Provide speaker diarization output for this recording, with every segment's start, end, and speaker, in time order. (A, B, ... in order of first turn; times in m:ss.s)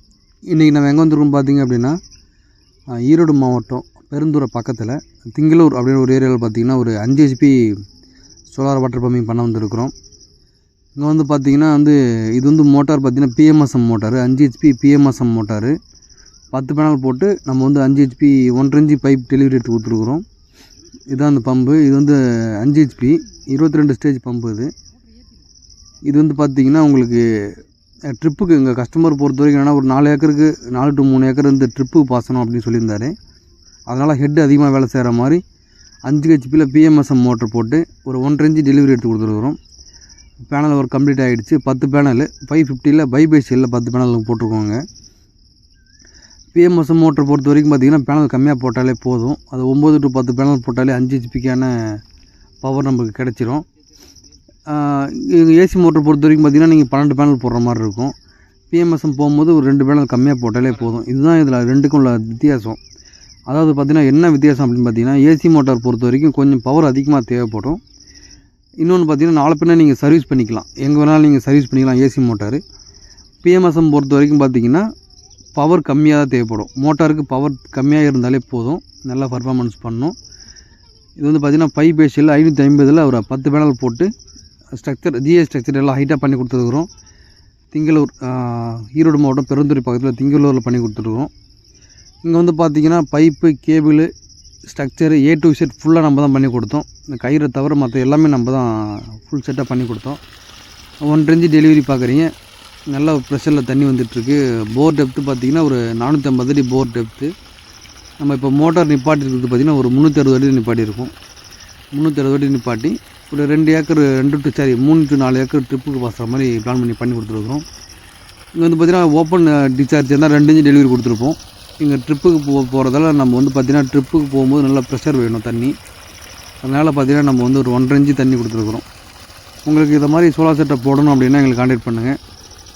0:00.5-0:02.0 A
0:02.9-0:07.8 A
0:08.5-0:09.9 A
0:11.0-0:15.8 A
0:16.5-0:20.2 A
0:21.1-0:24.7 A
0:26.0-0:27.6 A
0:28.1-0:33.1 A
0:33.9-0:35.4 A
0:36.0-0:39.6 A
0:40.5-0:44.8 A
0:46.5-0:52.0 A
0:52.6-0:53.6 A
0:54.7-0:58.1 A
0:58.7-1:02.8 A
1:03.5-1:07.8 A
1:08.8-1:12.6 A
1:13.4-1:14.9 A
1:15.5-1:20.1 A
1:21.2-1:24.1 A
1:24.8-1:26.9 A
1:27.7-1:31.3 A
1:32.2-1:34.1 A
1:34.7-1:40.2 A
1:41.0-1:42.3 A
1:42.9-1:47.3 A
1:48.2-1:51.1 A
1:51.9-1:57.6 A
1:58.6-2:05.7 A
2:06.6-2:08.8 A
2:09.6-2:12.2 A